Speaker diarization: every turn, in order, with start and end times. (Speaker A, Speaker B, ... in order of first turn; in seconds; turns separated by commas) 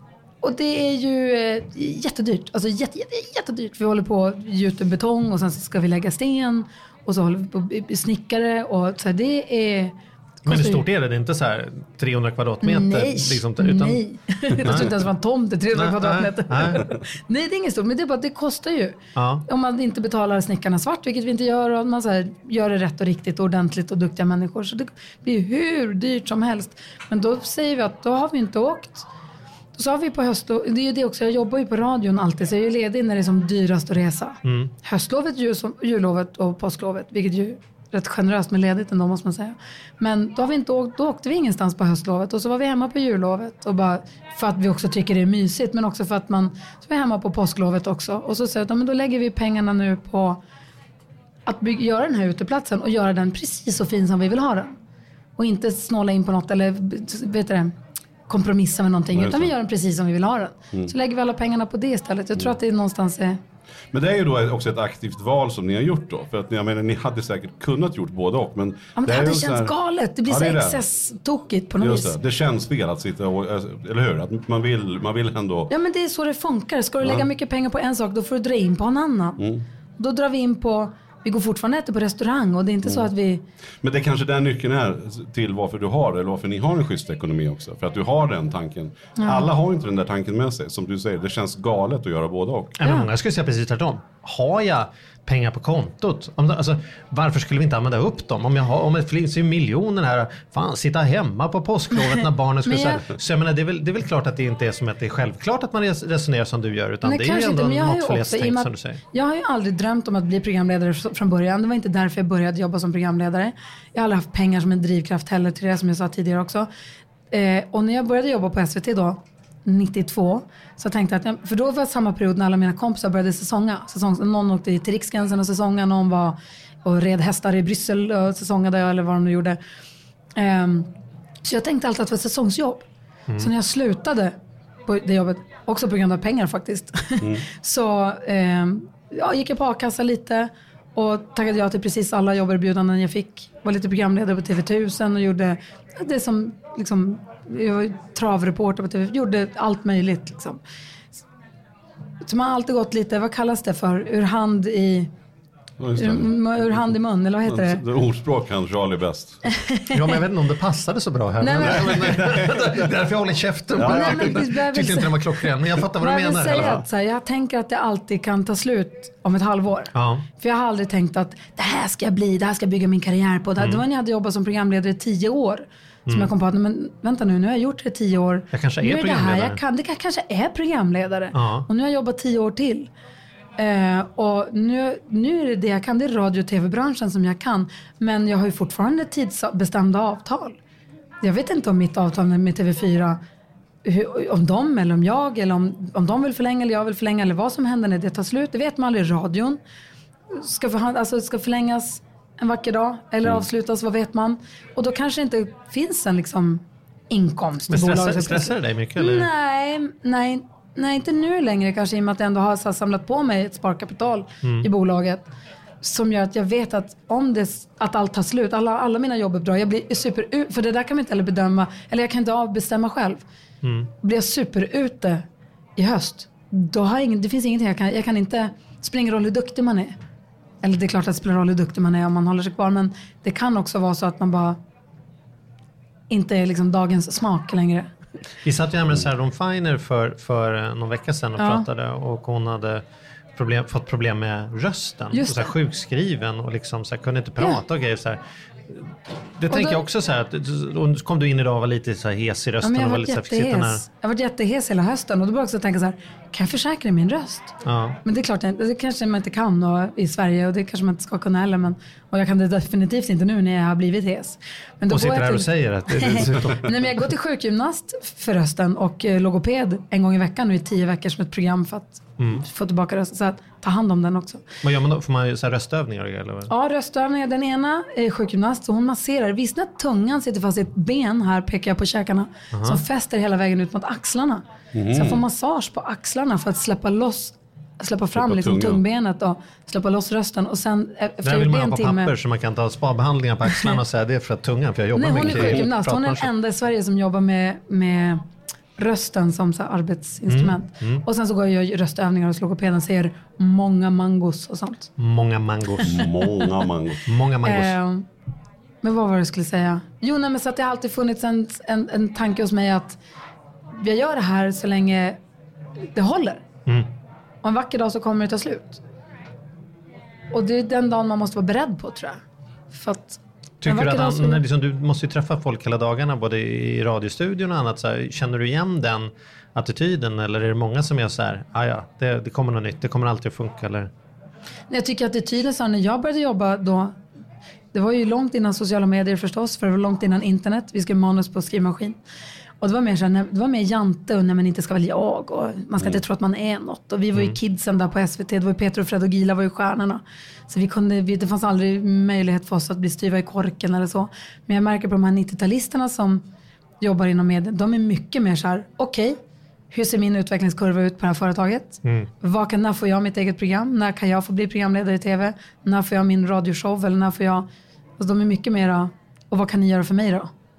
Speaker A: 0.4-10.8, Speaker B: 10.4-15.0, Speaker A: 12.6-29.1, Speaker B: 15.7-16.9, Speaker B: 19.1-19.4, Speaker A: 29.7-50.4, Speaker B: 34.4-34.7, Speaker A: 51.5-54.8, Speaker A: 55.4-57.7, Speaker A: 58.3-63.4, Speaker C: 59.1-59.5, Speaker C: 63.9-69.7, Speaker A: 69.0-72.1, Speaker C: 70.3-70.8, Speaker C: 71.8-75.7, Speaker A: 75.7-79.4, Speaker C: 79.4-79.6, Speaker A: 80.0-83.4, Speaker C: 83.8-92.8, Speaker A: 89.2-89.5, Speaker B: 92.8-109.0, Speaker A: 92.8-93.1, Speaker A: 102.7-103.1, Speaker A: 107.0-116.7, Speaker A: 117.3-129.6, Speaker A: 130.3-130.9, Speaker A: 131.4-132.8, Speaker A: 133.3-150.6, Speaker A: 152.2-155.1, Speaker C: 155.8-156.3, Speaker A: 156.0-157.8, Speaker C: 157.4-159.5, Speaker A: 159.5-160.0, Speaker B: 159.9-166.8, Speaker A: 161.4-162.1, Speaker C: 161.6-163.0, Speaker C: 163.8-164.5, Speaker A: 163.8-165.4, Speaker A: 166.0-182.9, Speaker C: 166.5-166.8, Speaker B: 169.9-170.2, Speaker B: 176.1-176.3, Speaker B: 178.5-179.6, Speaker B: 181.3-181.7, Speaker A: 183.6-190.6, Speaker A: 191.2-193.2, Speaker A: 193.8-199.6, Speaker A: 200.3-215.3, Speaker B: 207.7-209.3, Speaker A: 215.8-223.2, Speaker B: 223.6-223.9, Speaker A: 224.0-225.2, Speaker A: 225.8-229.9, Speaker A: 230.6-234.6, Speaker A: 236.1-237.9, Speaker B: 238.4-242.8, Speaker A: 241.4-241.7, Speaker B: 243.3-253.8, Speaker A: 245.1-245.5, Speaker A: 249.5-249.8, Speaker A: 252.6-274.4, Speaker B: 257.6-258.0, Speaker B: 264.9-266.7, Speaker B: 274.6-276.5, Speaker A: 276.5-292.1, Speaker B: 282.5-282.8, Speaker C: 284.7-285.2, Speaker C: 288.1-288.8, Speaker B: 291.2-296.3, Speaker A: 294.9-298.2, Speaker A: 298.8-304.9, Speaker B: 300.3-301.0, Speaker B: 305.0-306.1, Speaker C: 305.8-307.0, Speaker B: 307.0-307.8, Speaker A: 307.4-308.1, Speaker A: 308.8-313.0, Speaker A: 313.8-315.2, Speaker A: 315.9-316.4, Speaker A: 317.4-318.8, Speaker A: 320.3-324.4, Speaker B: 323.6-333.9, Speaker A: 334.7-337.0, Speaker A: 337.7-342.0, Speaker A: 342.6-356.2, Speaker A: 356.8-359.2, Speaker A: 359.7-367.5, Speaker A: 368.0-370.3